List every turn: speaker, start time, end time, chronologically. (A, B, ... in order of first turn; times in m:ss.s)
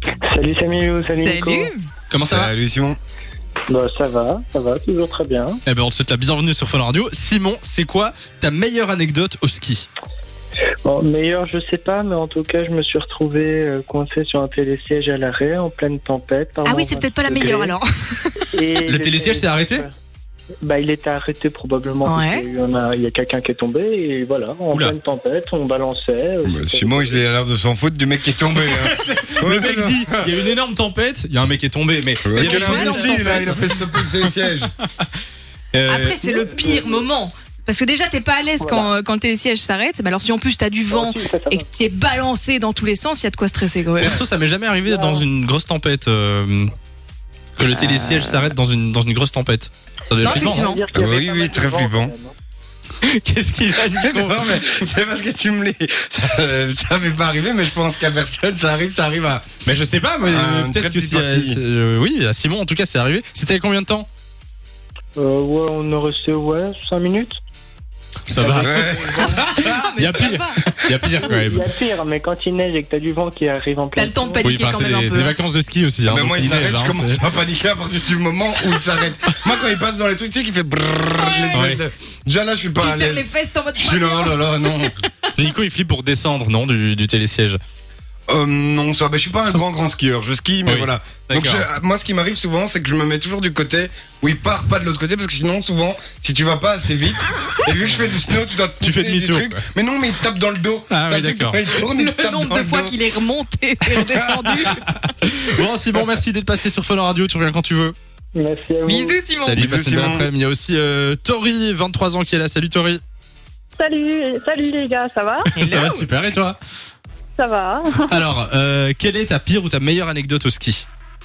0:00.3-0:01.6 A
0:01.2-0:01.9 B
0:02.1-0:02.5 C
0:02.2-0:03.0 D
0:03.7-0:05.6 A
0:05.7-0:09.9 C
0:10.8-0:17.7 A
0:16.6-0:18.5 B
0:18.6-0:19.8 A
0:18.8-0:19.8 C
0:20.6-0:27.2 A
0:22.0-0:22.5 B
0:24.7-0:25.0 C
0:26.4-0:30.3 D
0:28.6-0:34.3 C
0:32.2-0:34.7 D
0:32.4-0:33.3 B
0:35.7-0:36.2 C
0:35.8-0:44.2 B
0:36.4-0:36.9 A
0:38.6-0:38.9 A
0:40.9-0:41.6 A
0:44.0-0:46.7 C
0:44.9-0:45.2 A
0:47.6-0:50.8 C
0:47.7-0:48.5 B
0:50.2-0:50.8 B
0:50.7-0:52.3 A
0:50.9-0:52.1 D
0:53.0-0:54.5 C
0:54.0-0:59.4 D
0:59.6-1:04.1 C
1:00.2-1:01.6 D
1:05.2-1:07.4 A
1:08.3-1:11.7 C
1:08.4-1:09.2 A
1:08.6-1:09.3 D
1:09.3-1:11.4 B
1:11.3-1:14.6 A
1:14.0-1:15.4 B
1:14.4-1:17.2 C
1:16.1-1:24.9 D
1:21.5-1:21.8 C
1:22.8-1:24.5 B
1:25.4-1:27.6 C
1:28.3-1:43.1 D
1:30.7-1:31.6 C
1:38.8-1:39.6 C
1:40.9-1:41.6 C
1:41.9-1:44.8 B
1:44.0-1:44.8 D
1:44.5-1:48.0 C
1:48.4-1:49.2 A
1:48.9-1:49.6 B
1:49.5-1:53.0 C
1:49.5-1:50.3 D
1:53.8-1:55.5 E
1:55.6-1:56.0 B
1:55.6-1:56.6 C
1:57.4-1:58.0 E
1:58.1-2:00.9 C